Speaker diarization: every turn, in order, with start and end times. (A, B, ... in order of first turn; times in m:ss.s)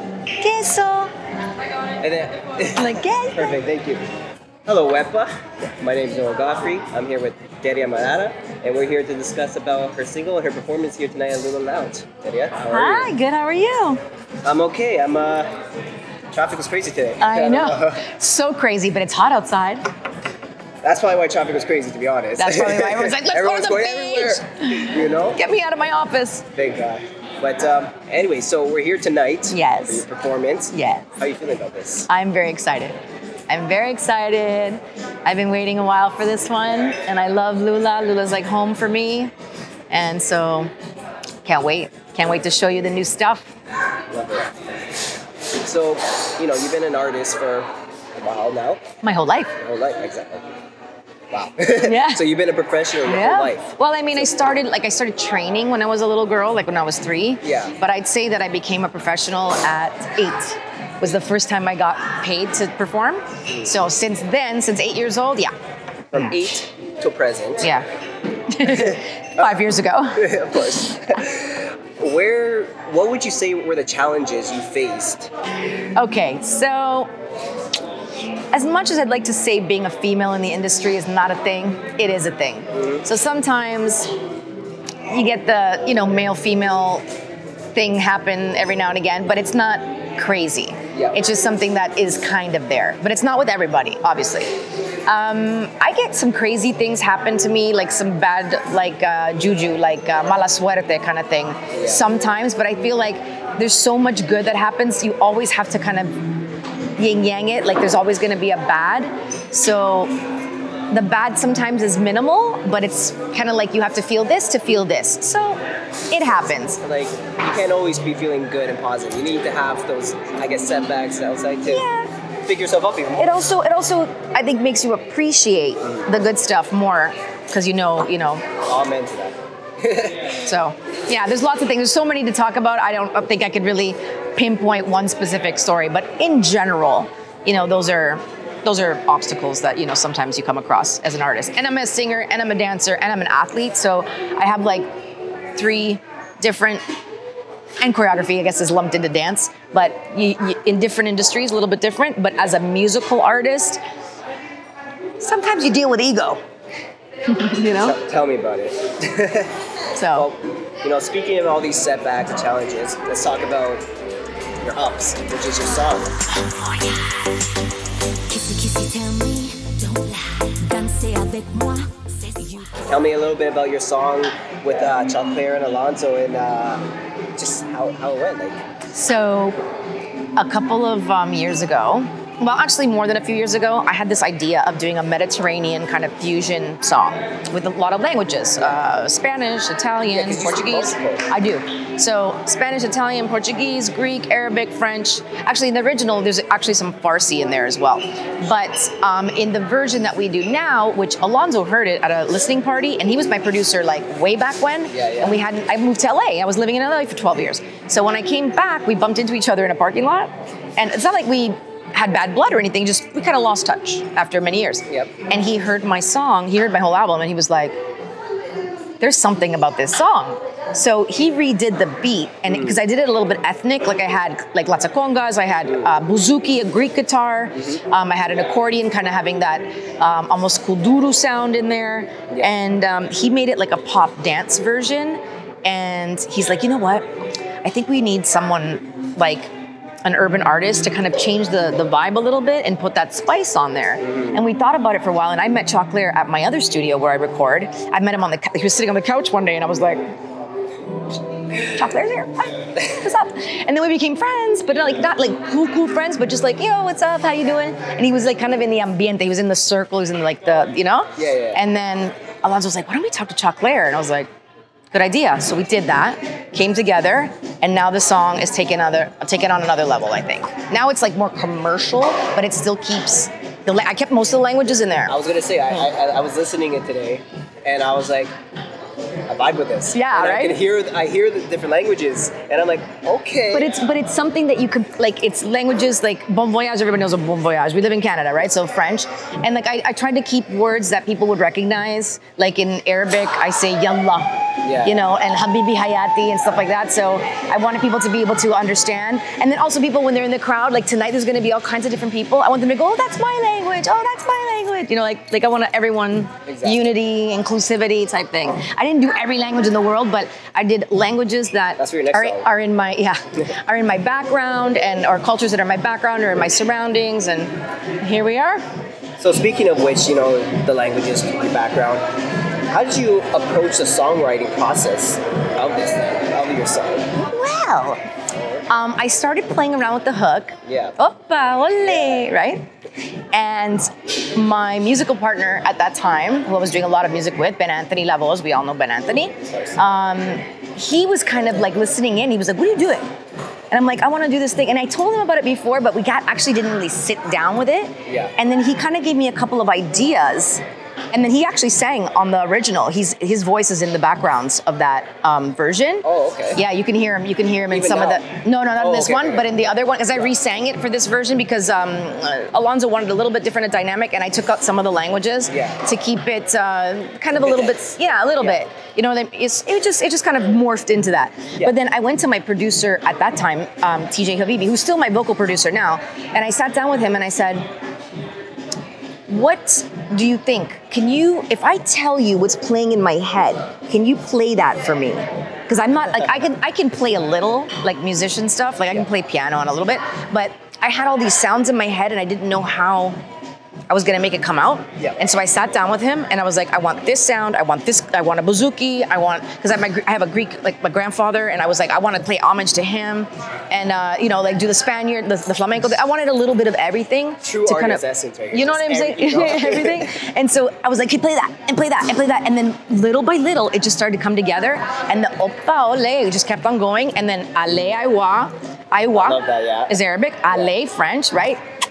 0:00.4-0:01.1 A
0:02.0-0:04.0 B
0:02.8-0:03.5 A
0:04.7-0:13.1 B
0:12.7-0:14.0 A
0:14.4-0:15.5 B
0:16.3-0:18.0 B
0:17.2-0:19.8 A
0:20.8-0:25.4 B
0:22.4-0:26.4 A
0:26.6-0:32.1 B
0:29.5-0:30.1 A
0:30.7-0:31.1 A
0:32.1-0:33.0 A
0:33.5-0:39.3 A
0:39.9-0:40.7 A
0:41.4-0:43.5 A
0:44.1-0:44.5 B
0:45.6-0:48.8 B
0:49.0-0:49.6 A
0:49.6-0:50.5 B
0:51.3-0:54.3 B
0:51.8-0:52.2 A
0:53.0-1:05.5 A
0:57.4-0:57.8 B
1:06.1-1:07.7 B
1:08.5-1:10.2 A
1:08.7-1:09.0 B
1:10.2-1:15.3 B
1:16.0-1:17.1 A
1:18.5-1:24.1 A
1:22.7-1:23.0 B
1:25.1-1:27.0 A
1:27.7-1:34.5 A
1:35.1-1:46.2 A
1:41.7-1:42.0 B
1:47.0-1:50.1 A
1:50.9-1:56.8 A
1:56.8-2:01.8 B
2:01.7-2:02.1 A
2:02.5-2:03.3 B
2:03.2-2:08.4 A
2:08.7-2:10.2 B
2:10.4-2:24.9 A
2:25.6-2:26.8 A
2:27.8-2:33.8 A
2:35.2-2:36.4 A
2:37.3-2:38.0 A
2:37.7-2:39.5 B
2:39.9-2:40.3 A
2:40.1-2:43.8 B
2:44.6-2:46.2 B
2:46.4-2:47.0 A
2:48.3-2:52.8 A
2:52.9-2:56.8 B
2:57.4-2:58.6 B
2:58.9-2:59.6 A
3:00.4-3:37.8 A
3:10.1-3:11.3 B
3:24.9-3:25.4 B
3:39.0-3:57.1 A
3:42.5-3:42.8 B
3:57.6-3:59.5 A
4:00.0-4:10.0 A
4:04.0-4:04.4 B
4:11.6-4:24.3 A
4:21.2-4:21.6 B
4:24.9-4:35.2 A
4:35.1-4:38.3 B
4:39.3-4:43.8 B
4:39.9-4:40.6 A
4:43.5-5:18.6 A
4:54.6-4:55.0 B
5:06.5-5:06.9 B
5:11.8-5:12.5 B
5:19.2-5:22.0 B
5:22.7-5:27.1 B
5:27.2-5:28.0 A
5:28.7-5:32.6 A
5:30.7-5:31.0 B
5:31.8-5:32.3 B
5:33.3-5:43.1 A
5:39.4-5:39.8 B
5:43.7-5:50.6 A
5:48.1-5:48.3 B
5:51.1-6:17.6 A
5:56.0-5:56.6 B
5:57.7-5:58.2 B
5:58.8-5:59.5 B
6:05.5-6:05.8 B
6:07.4-6:07.8 B
6:08.4-6:08.6 B
6:19.3-6:33.2 A
6:33.9-7:01.6 A
6:47.4-6:50.2 B
6:59.2-6:59.9 B